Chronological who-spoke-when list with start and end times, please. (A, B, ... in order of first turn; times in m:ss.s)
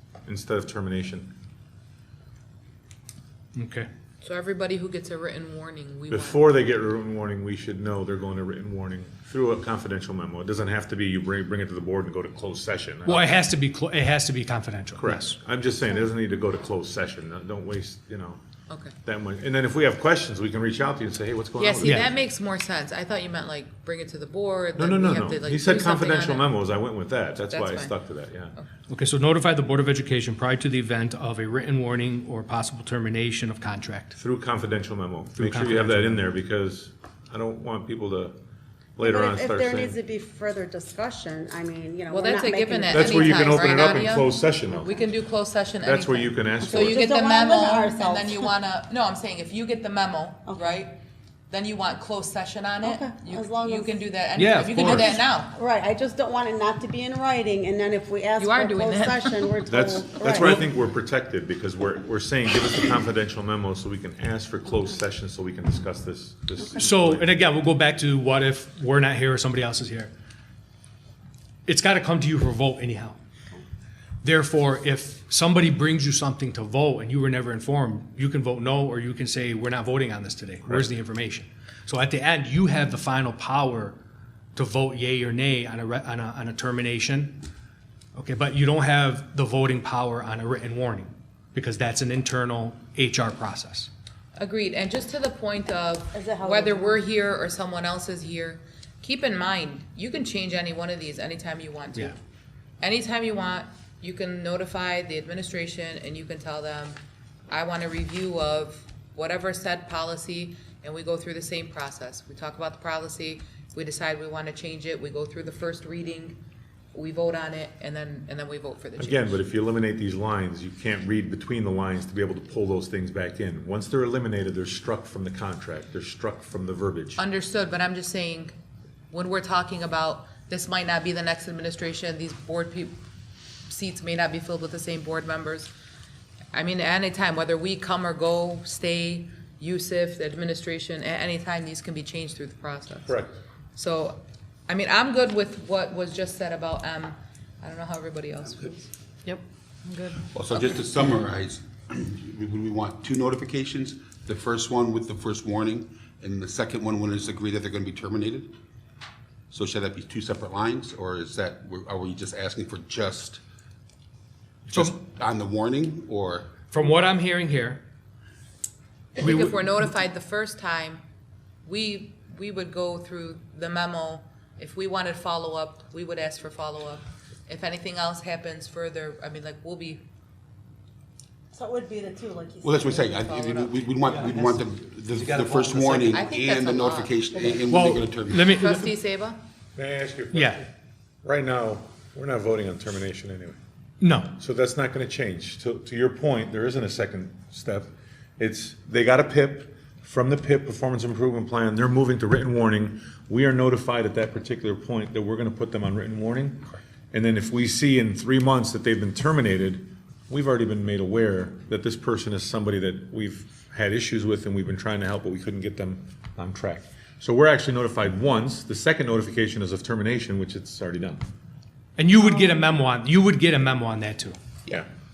0:00.2-0:01.3 A
0:03.5-0:03.9 B
0:04.2-0:06.5 C
0:06.1-0:13.3 A
0:13.0-0:15.4 B
0:15.0-0:18.4 A
0:18.7-0:18.9 C
0:19.0-0:22.1 A
0:21.6-0:26.5 C
0:21.8-0:22.1 B
0:24.8-0:28.5 A
0:27.5-0:27.9 C
0:28.9-0:34.2 B
0:34.2-0:38.4 A
0:35.3-0:36.3 B
0:39.0-0:40.0 A
0:39.0-0:43.5 D
0:42.1-0:55.5 C
0:42.9-0:45.0 A
0:45.8-0:47.1 A
0:46.6-0:48.5 D
0:50.5-0:50.8 D
0:52.8-0:54.0 D
0:54.4-0:55.2 B
0:54.8-0:55.0 A
0:55.5-1:00.6 D
0:58.4-0:59.6 C
0:59.7-1:07.3 A
1:06.6-1:06.8 D
1:06.8-1:10.1 B
1:11.7-1:13.2 B
1:14.2-1:24.0 B
1:20.6-1:20.9 A
1:24.6-1:27.4 B
1:28.1-1:33.9 B
1:34.4-1:42.2 C
1:36.1-1:37.0 D
1:42.8-1:56.4 C
1:56.9-1:59.4 C
1:59.0-2:07.2 A
2:07.2-2:08.6 C
2:09.1-2:13.0 C
2:13.7-2:15.7 C
2:16.5-2:23.2 C
2:23.1-2:23.3 A
2:23.8-2:30.2 C
2:30.3-2:38.5 E
2:39.5-2:43.4 E
2:44.7-2:46.5 E
2:46.7-2:47.8 B
2:49.2-2:51.0 C
2:49.2-2:49.6 B
2:51.6-3:00.0 C
3:01.5-3:03.3 D
3:02.6-3:08.5 E
3:03.1-3:03.8 C
3:04.1-3:04.6 A
3:05.1-3:06.2 A
3:06.0-3:07.2 C
3:07.7-3:08.9 B
3:08.5-3:09.4 C
3:09.8-3:10.6 A
3:10.3-3:10.6 B
3:11.2-3:13.6 A
3:14.0-3:14.3 B
3:14.4-3:41.2 A
3:42.0-3:44.4 B
3:42.2-3:42.7 D